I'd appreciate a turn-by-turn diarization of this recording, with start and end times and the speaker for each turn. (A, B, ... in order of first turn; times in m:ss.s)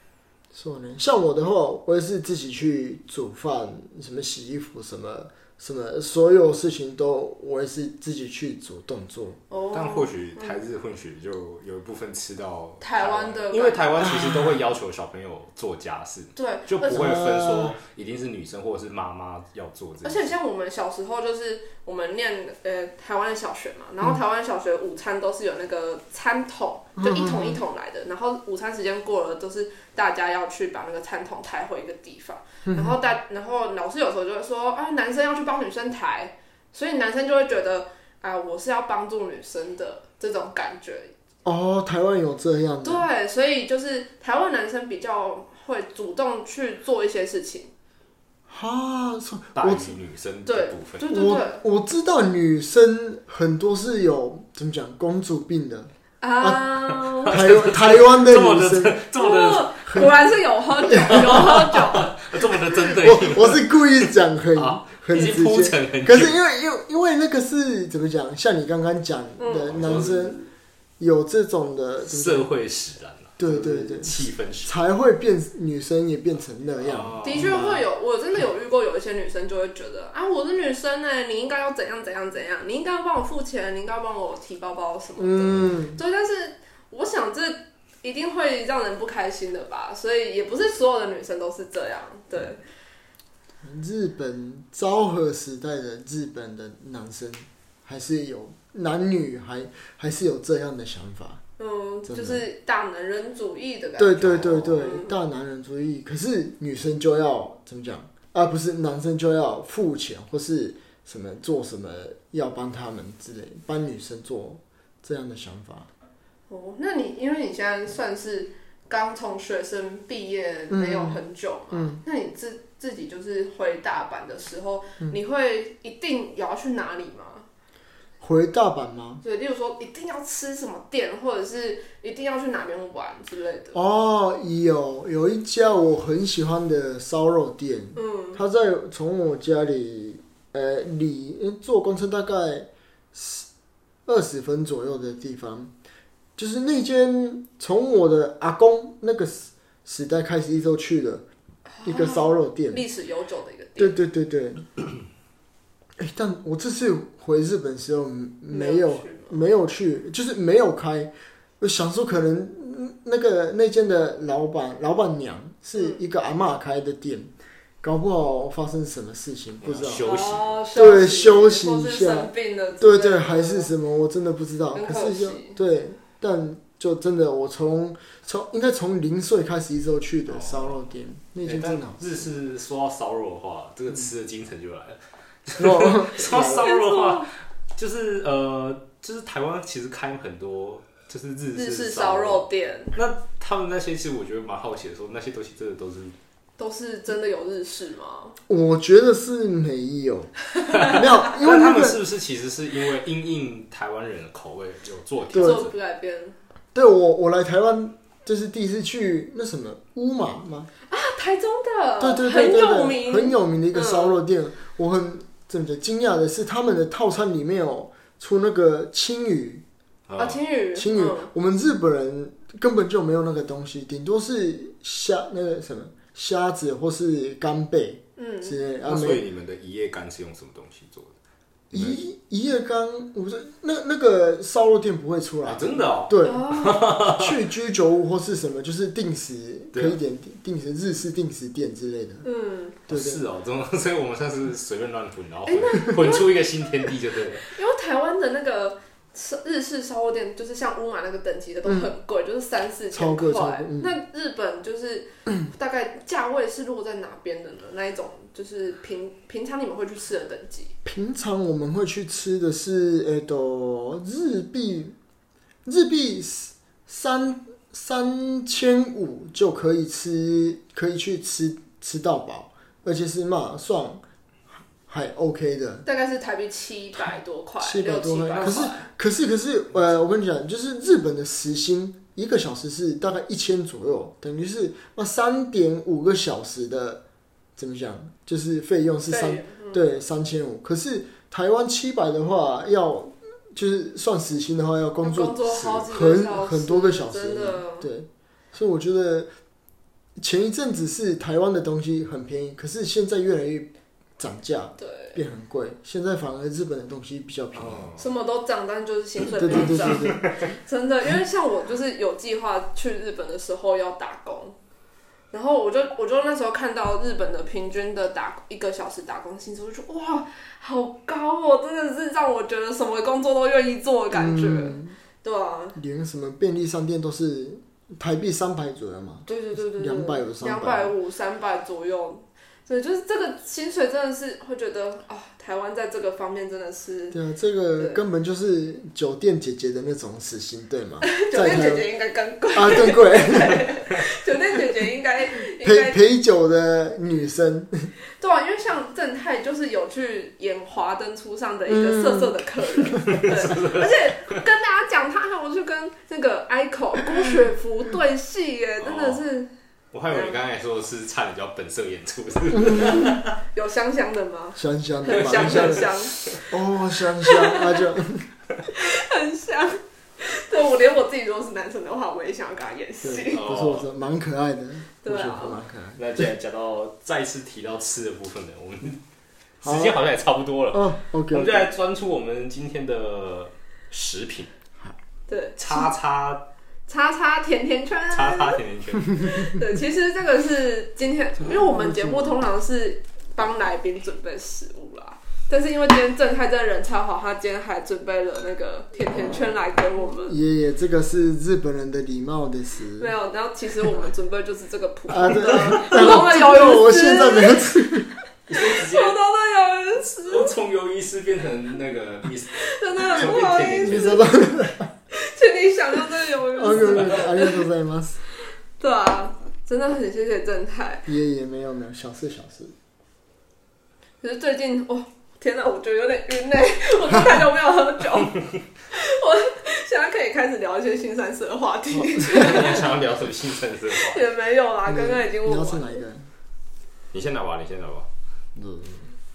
0:00.5-0:09.4 A
0:09.5-0:10.6 B
0:09.7-0:20.3 C
0:12.8-0:14.1 B
0:14.0-0:14.6 A
0:16.4-0:17.0 B
0:16.8-0:17.8 A
0:20.0-0:41.1 B
0:27.0-0:27.6 A
0:32.6-0:33.0 A
0:41.4-0:43.1 A
0:42.8-0:47.7 B
0:48.5-0:50.0 A
0:49.5-0:51.1 C
0:50.4-0:51.6 B
0:51.1-0:56.6 A
0:56.2-0:57.5 B
0:56.9-1:00.1 C
0:57.3-0:59.0 A
0:59.2-1:02.1 B
0:59.9-1:00.1 A
1:00.8-1:01.8 A
1:01.1-1:06.3 C
1:02.7-1:10.4 A
1:09.4-1:09.8 B
1:09.7-1:10.5 C
1:11.0-1:12.5 A
1:12.0-1:14.7 C
1:13.4-1:17.8 A
1:16.8-1:17.6 C
1:17.2-1:32.6 B
1:25.2-1:26.0 A
1:33.6-1:41.4 A
1:41.6-1:45.2 B
1:42.1-1:42.4 A
1:44.0-1:55.9 A
1:44.3-1:44.6 C
1:56.5-2:07.4 B
2:00.7-2:02.0 A
2:08.2-2:09.2 A
2:09.2-2:13.8 B
2:13.7-2:23.5 A
2:17.9-2:18.4 B
2:24.0-2:25.7 A
2:26.4-2:31.2 A
2:31.7-2:34.0 B
2:31.8-2:32.8 A
2:33.8-2:34.7 A
2:36.0-2:47.3 A
2:38.5-2:39.4 B
2:47.8-2:50.2 A
2:49.6-2:50.6 C
2:50.0-2:53.7 B
2:50.7-3:02.2 A
2:54.7-2:55.6 B
3:00.3-3:00.8 C
3:01.4-3:16.1 C
3:05.6-3:06.6 A
3:06.3-3:07.3 B
3:11.5-3:12.9 B
3:16.6-3:18.4 B
3:18.5-3:20.3 A
3:20.6-3:20.9 B
3:20.7-3:25.7 C
3:20.8-3:22.0 A
3:25.3-3:25.6 A
3:25.3-3:26.4 B
3:26.7-3:30.7 A
3:30.9-3:34.2 B
3:32.0-3:39.6 A
3:40.1-3:40.4 C
3:40.2-3:41.3 B
3:40.7-3:49.2 A
3:48.2-3:48.6 B
3:48.8-3:51.1 C
3:51.7-3:52.0 C
3:51.7-4:02.2 A
3:55.4-3:57.4 C
3:56.2-3:56.8 B
3:59.7-4:00.0 C
4:02.2-4:02.8 B
4:02.9-4:03.2 A
4:02.9-4:07.4 C
4:05.5-4:06.8 B
4:07.4-4:20.7 B
4:11.6-4:11.9 A
4:12.9-4:13.9 A
4:20.8-4:24.9 A
4:25.6-4:34.0 A
4:34.9-4:35.8 A
4:35.8-4:38.9 B
4:37.6-4:47.0 A
4:47.6-4:59.3 A
4:49.1-4:49.8 B
4:55.0-4:57.9 B
5:00.2-5:07.9 A
5:04.8-5:05.2 B
5:07.5-5:08.1 C
5:08.0-5:14.6 B
5:09.4-5:10.3 A
5:09.5-5:10.3 C
5:15.3-5:25.8 B
5:24.1-5:25.0 A
5:25.7-5:30.9 A
5:29.2-5:37.2 B
5:37.1-5:41.9 A
5:37.8-5:38.0 B
5:41.0-5:46.0 B
5:42.5-5:43.7 A
5:45.6-5:47.9 A
5:48.2-5:59.5 B
5:51.7-5:53.3 A
5:53.1-5:54.4 C
5:58.8-5:59.2 C
5:59.9-6:03.3 C
6:00.1-6:00.4 B
6:02.6-6:03.1 A
6:02.8-6:06.1 B
6:04.6-6:05.9 A
6:05.1-6:06.4 C
6:06.5-6:08.2 A
6:07.2-6:07.8 B
6:08.7-6:13.4 B
6:13.0-6:16.3 A
6:13.3-6:13.9 C
6:15.0-6:15.6 B
6:16.0-6:19.0 C
6:19.6-6:24.5 C
6:19.6-6:20.0 A
6:20.7-6:21.7 A
6:25.3-6:25.9 B
6:25.6-6:26.4 C
6:26.9-6:28.6 B
6:28.1-6:29.2 C
6:29.2-6:40.4 B
6:31.4-6:32.4 A
6:40.2-6:43.1 A
6:43.0-6:47.9 B
6:45.1-6:48.1 A
6:48.5-6:49.2 C
6:48.5-6:50.5 B
6:50.2-6:54.2 C
6:52.5-6:54.3 B
6:53.8-6:54.9 A
6:55.1-6:57.6 B
6:56.5-6:58.2 A
6:58.8-7:01.0 B
7:01.1-7:02.7 A
7:04.2-7:08.4 B
7:08.9-7:12.9 B
7:12.2-7:14.2 C
7:13.9-7:16.0 B
7:14.9-7:16.3 A
7:17.1-7:18.1 C
7:18.6-7:19.1 A